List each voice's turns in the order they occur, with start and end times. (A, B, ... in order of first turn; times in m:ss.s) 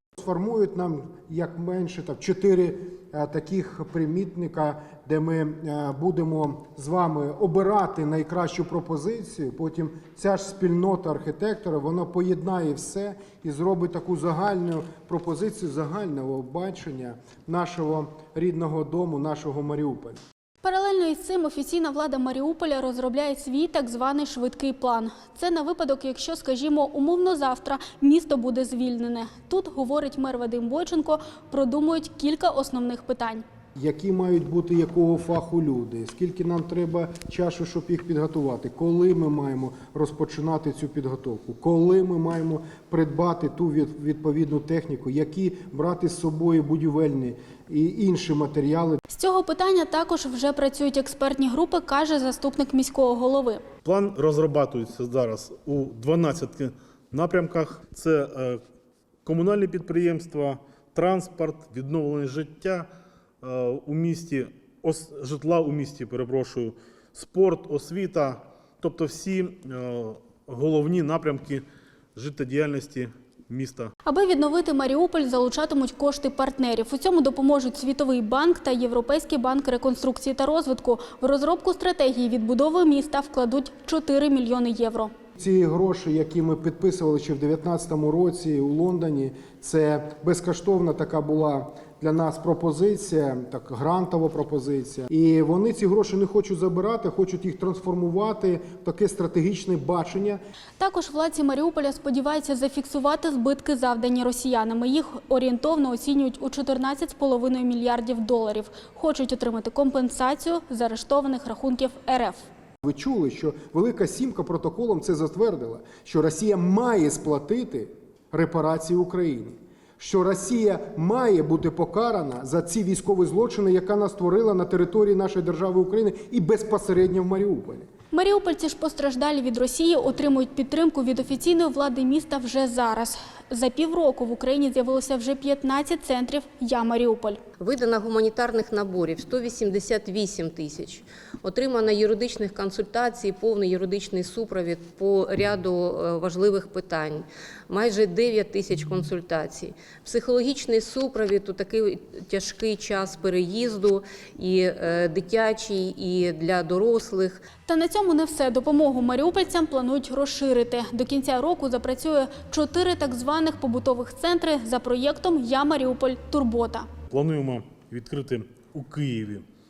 0:00.2-0:20.2 A
0:20.6-0:33.4 B
0:33.8-0:49.0 A
0:49.1-0:53.6 B
0:53.8-0:58.6 C
0:59.2-1:02.9 C
1:03.4-1:13.9 C
1:14.0-1:25.1 B
1:25.4-1:40.4 A
1:40.8-1:52.5 B
1:52.8-2:07.9 A
2:08.1-2:17.4 B
2:17.6-2:37.5 D
2:37.6-2:46.9 B
2:47.1-2:49.5 C